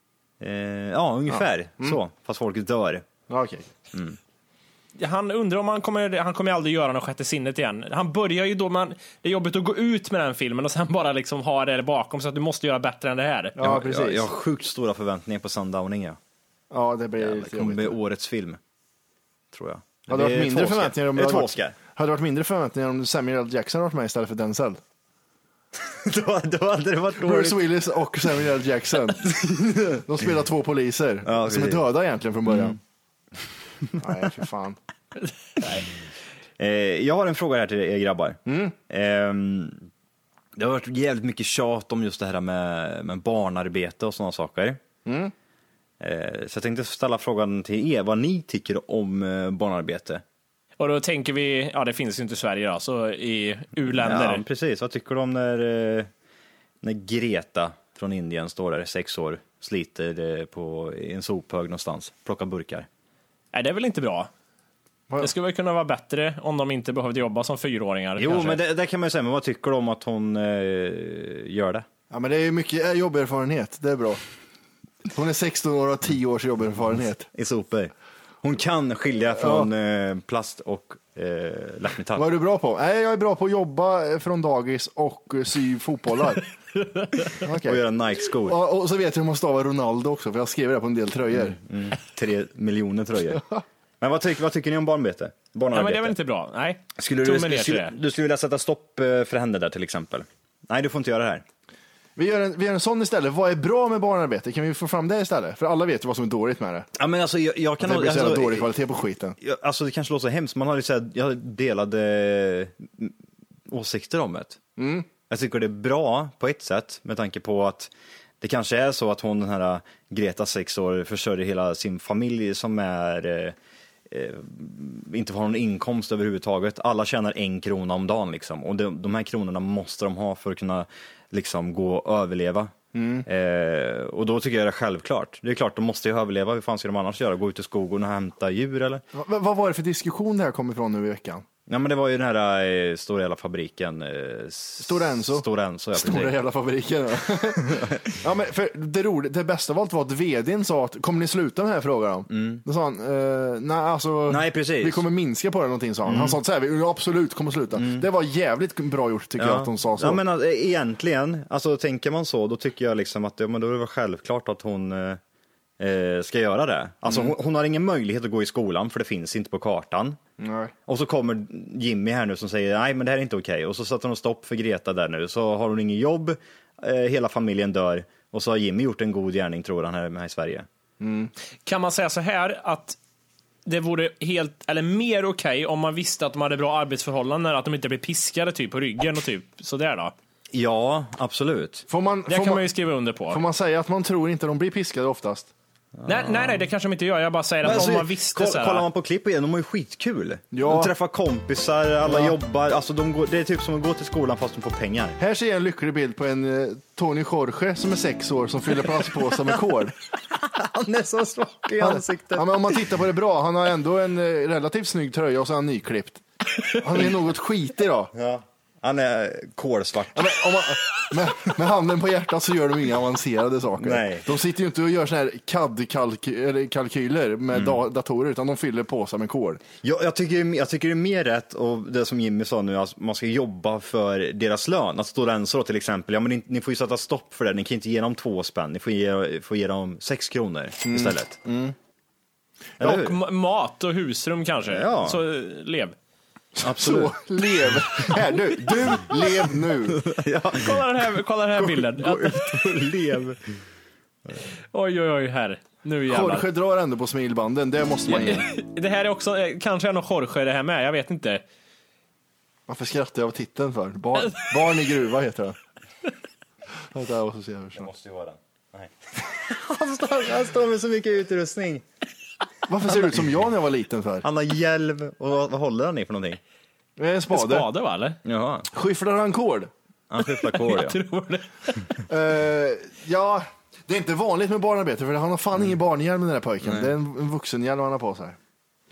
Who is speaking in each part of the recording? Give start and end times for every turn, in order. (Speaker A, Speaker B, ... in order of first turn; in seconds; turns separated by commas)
Speaker A: 0.4-3.1, Speaker B: 1.3-2.0, Speaker B: 3.3-3.7, Speaker A: 3.9-4.2, Speaker C: 5.0-13.6, Speaker B: 13.6-14.3, Speaker A: 13.6-16.2, Speaker B: 16.7-17.9, Speaker A: 17.2-18.6, Speaker A: 19.5-21.7, Speaker B: 20.1-24.8, Speaker A: 25.7-27.6, Speaker B: 27.2-32.8, Speaker A: 29.3-29.6, Speaker A: 31.2-31.8, Speaker A: 32.5-32.8, Speaker B: 34.0-34.8, Speaker C: 35.6-35.9, Speaker A: 36.6-39.8, Speaker B: 38.5-38.8, Speaker A: 40.5-44.8, Speaker B: 45.0-45.3, Speaker A: 46.0-50.2, Speaker C: 50.8-54.4, Speaker A: 53.9-56.1, Speaker A: 56.8-62.9, Speaker C: 63.5-64.3, Speaker C: 65.2-68.6, Speaker A: 68.2-71.8, Speaker B: 72.1-74.2, Speaker B: 75.0-77.3, Speaker A: 77.3-77.9, Speaker A: 78.4-82.2, Speaker B: 79.4-79.7, Speaker B: 82.2-86.5, Speaker B: 87.4-87.8, Speaker A: 87.6-88.6, Speaker B: 88.4-91.6, Speaker A: 91.3-93.4, Speaker A: 94.0-96.1, Speaker C: 95.7-97.9, Speaker A: 97.0-101.4, Speaker B: 102.2-106.9, Speaker A: 107.0-108.7, Speaker B: 107.8-109.4, Speaker A: 109.4-113.1, Speaker A: 113.7-114.6, Speaker B: 114.8-115.1, Speaker A: 115.3-123.5, Speaker A: 124.1-132.7, Speaker B: 132.9-133.2, Speaker A: 133.2-139.0, Speaker B: 139.1-141.4, Speaker A: 141.7-146.3, Speaker B: 144.8-160.2, Speaker A: 147.7-148.1, Speaker A: 152.3-152.6, Speaker A: 154.3-155.0, Speaker A: 156.0-156.4, Speaker A: 157.7-158.1, Speaker A: 159.4-165.2, Speaker A: 165.8-170.2, Speaker B: 167.1-167.3, Speaker B: 170.4-170.7, Speaker A: 170.9-180.7, Speaker B: 181.0-181.3, Speaker C: 181.6-183.0, Speaker C: 183.7-190.1, Speaker A: 190.5-191.8, Speaker B: 191.9-192.7, Speaker C: 192.3-193.4, Speaker B: 193.3-195.5, Speaker A: 196.0-196.6, Speaker C: 196.1-198.8, Speaker A: 197.6-205.2, Speaker B: 200.5-200.9, Speaker B: 202.1-202.3, Speaker B: 205.2-209.9, Speaker A: 210.3-212.8, Speaker B: 211.8-218.1, Speaker A: 218.1-220.3, Speaker B: 220.1-229.6, Speaker A: 223.8-224.3, Speaker A: 229.8-241.4, Speaker B: 240.8-241.7, Speaker A: 242.8-243.2, Speaker C: 242.8-245.9, Speaker A: 244.7-245.2, Speaker B: 246.6-250.0, Speaker A: 246.6-247.2, Speaker A: 249.7-253.6, Speaker C: 250.5-252.6, Speaker C: 254.7-256.4, Speaker B: 256.1-258.4, Speaker C: 258.1-261.4, Speaker B: 262.7-265.6, Speaker B: 266.9-267.9, Speaker A: 267.7-271.8, Speaker B: 272.7-274.2, Speaker A: 274.2-276.4, Speaker B: 277.0-277.7, Speaker C: 277.3-278.2, Speaker A: 278.2-278.7, Speaker B: 278.7-279.7, Speaker A: 280.1-281.0, Speaker C: 280.2-281.9, Speaker B: 282.1-288.4